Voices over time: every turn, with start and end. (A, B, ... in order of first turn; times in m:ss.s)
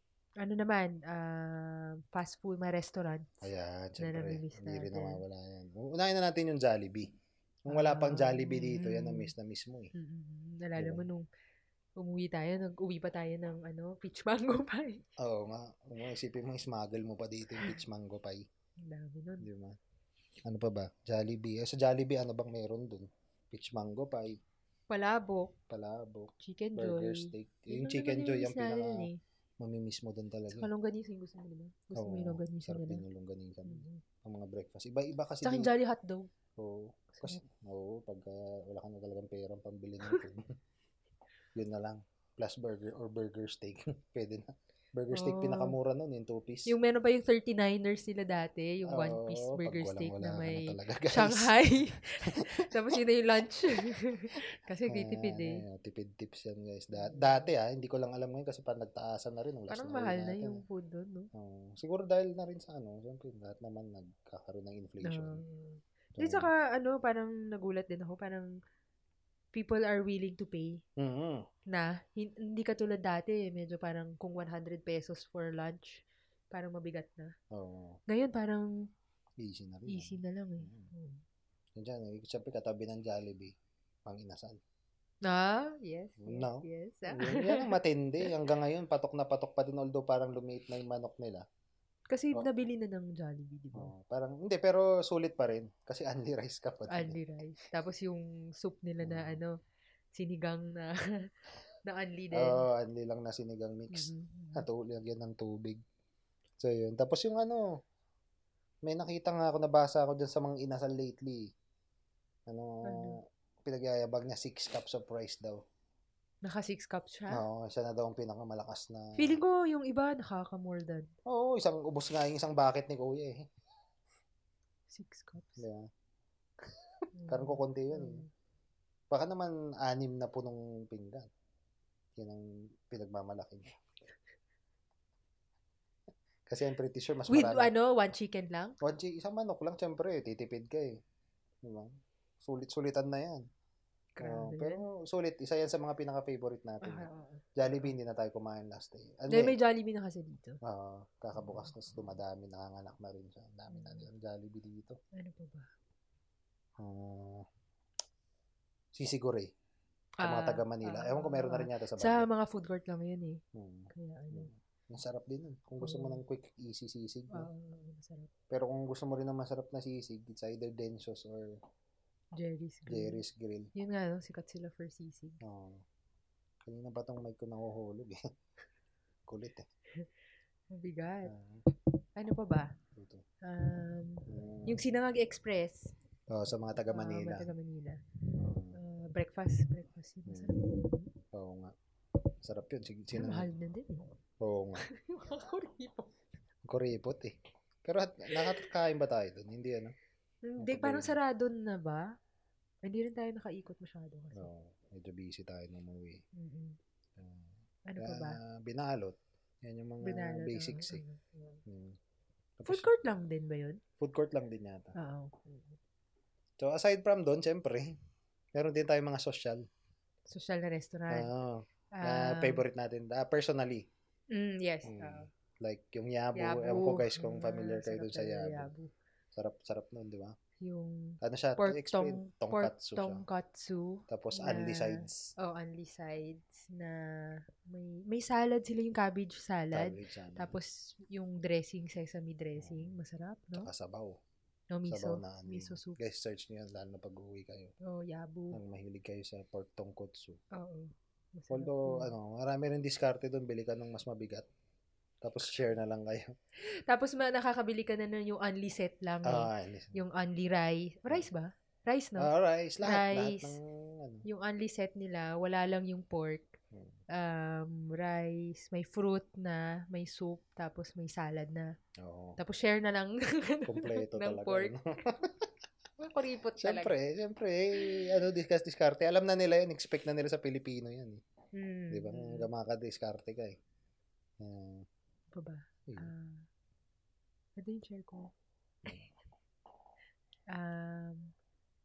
0:00.4-0:03.4 A
0:03.4-0:07.1 B
0:04.0-0:05.2 A
0:07.7-0:09.9 B
0:07.7-0:09.3 A
0:09.9-0:11.2 A
0:10.8-0:11.1 B
0:12.0-0:15.0 A
0:15.2-0:18.4 B
0:18.8-0:19.5 A
0:19.4-0:19.8 B
0:20.4-0:24.4 B
0:24.9-0:25.5 A
0:25.7-0:29.1 B
0:26.4-0:29.2 A
0:29.6-0:30.7 B
0:30.5-0:33.0 A
0:31.9-0:35.7 B
0:33.6-0:34.0 A
0:35.4-0:36.3 A
0:36.6-0:40.5 B
0:37.1-0:37.4 A
0:41.5-0:46.7 B
0:45.1-0:45.8 A
0:46.6-0:55.6 A
0:48.9-0:51.5 B
0:52.3-0:53.0 B
0:54.9-1:00.6 B
0:56.9-0:57.5 A
0:59.7-1:01.3 A
1:01.3-1:05.4 B
1:05.0-1:08.5 A
1:06.2-1:06.5 B
1:09.5-1:10.8 A
1:11.0-1:11.4 B
1:11.7-1:17.3 A
1:17.5-1:18.0 B
1:18.1-1:18.9 A
1:19.4-1:20.9 B
1:19.9-1:21.2 A
1:21.8-1:23.5 B
1:24.0-1:24.6 B
1:25.2-1:28.3 A
1:26.2-1:31.4 B
1:32.1-1:33.9 A
1:33.7-1:37.2 B
1:36.9-1:39.6 A
1:39.0-1:39.4 B
1:40.1-1:41.3 A
1:41.8-1:42.6 A
1:42.3-1:45.8 B
1:43.9-1:44.6 A
1:46.6-1:47.7 B
1:48.8-1:51.5 B
1:52.5-1:55.6 B
1:52.8-1:53.2 A
1:56.4-1:57.4 A
1:57.3-1:59.4 B
1:59.2-2:01.1 A
2:01.2-2:03.5 B
2:04.9-2:05.6 A
2:05.6-2:05.9 B
2:07.1-2:08.3 A
2:07.3-2:08.2 B
2:09.1-2:11.3 B
2:12.2-2:13.8 B
2:16.5-2:17.7 B
2:17.3-2:18.8 A
2:18.8-2:21.0 B
2:21.6-2:23.4 B
2:24.2-2:24.8 A
2:24.2-2:29.6 B
2:26.8-2:27.9 A
2:29.3-2:30.6 A
2:30.6-2:35.0 B
2:31.3-2:31.7 A
2:33.7-2:34.1 A
2:35.1-2:35.7 A
2:36.8-2:37.5 B
2:38.9-2:39.5 B
2:40.2-2:43.4 A
2:40.2-2:42.3 B
2:43.5-2:47.5 B
2:43.9-2:44.5 A
2:45.8-2:46.2 A
2:47.3-2:48.3 A
2:48.5-2:51.6 B
2:52.4-2:53.2 A
2:52.9-2:53.7 B
2:53.7-2:55.4 A
2:55.4-2:55.8 B
2:56.6-2:58.2 B
2:59.3-2:59.6 B
3:00.7-3:01.3 A
3:01.2-3:01.6 B
3:02.2-3:02.7 A
3:02.9-3:03.2 B
3:03.4-3:05.9 A
3:04.3-3:04.8 B
3:06.3-3:07.5 B
3:06.9-3:08.0 A
3:08.4-3:08.8 B
3:08.7-3:11.1 A
3:10.3-3:10.6 B
3:11.3-3:11.7 B
3:12.4-3:13.5 B
3:13.1-3:14.1 A
3:14.4-3:14.8 B
3:14.8-3:16.1 A
3:16.6-3:19.9 B
3:18.3-3:18.6 A
3:20.4-3:22.1 A
3:20.6-3:21.2 B
3:22.8-3:24.5 A
3:24.3-3:26.2 B
3:26.3-3:26.8 A
3:27.2-3:31.0 B
3:27.9-3:28.4 A
3:30.0-3:31.6 A
3:31.6-3:32.0 B
3:32.6-3:32.9 B
3:32.6-3:33.8 A
3:34.0-3:34.9 B
3:34.9-3:35.8 A
3:36.6-3:38.0 B
3:38.5-3:39.6 B
3:40.3-3:41.3 A
3:41.1-3:43.9 B
3:41.9-3:42.6 A
3:44.3-3:45.3 A
3:44.8-3:48.7 B
3:46.3-3:48.9 A
3:49.3-3:50.4 B
3:50.6-4:03.7 A
3:51.2-3:53.2 B
3:54.1-3:55.3 B
3:59.7-4:00.6 B
4:02.6-4:03.0 B
4:03.6-4:04.2 B
4:04.7-4:06.0 A
4:04.9-4:07.7 B
4:07.8-4:08.6 A
4:08.5-4:10.4 B
4:10.5-4:12.1 A
4:11.5-4:14.4 B
4:15.2-4:16.3 B
4:16.9-4:22.3 A
4:19.2-4:20.0 B
4:22.2-4:24.2 B
4:22.8-4:23.6 A
4:24.2-4:26.6 A
4:26.7-4:27.0 B
4:27.1-4:31.7 A
4:32.0-4:32.4 B
4:32.4-4:34.7 A
4:33.6-4:35.5 B
4:36.0-4:36.9 A
4:36.6-4:41.2 B
4:41.5-4:42.5 A
4:41.9-4:43.6 B
4:44.4-4:44.9 B
4:45.3-4:46.5 A
4:47.6-4:48.3 A
4:50.5-4:51.3 A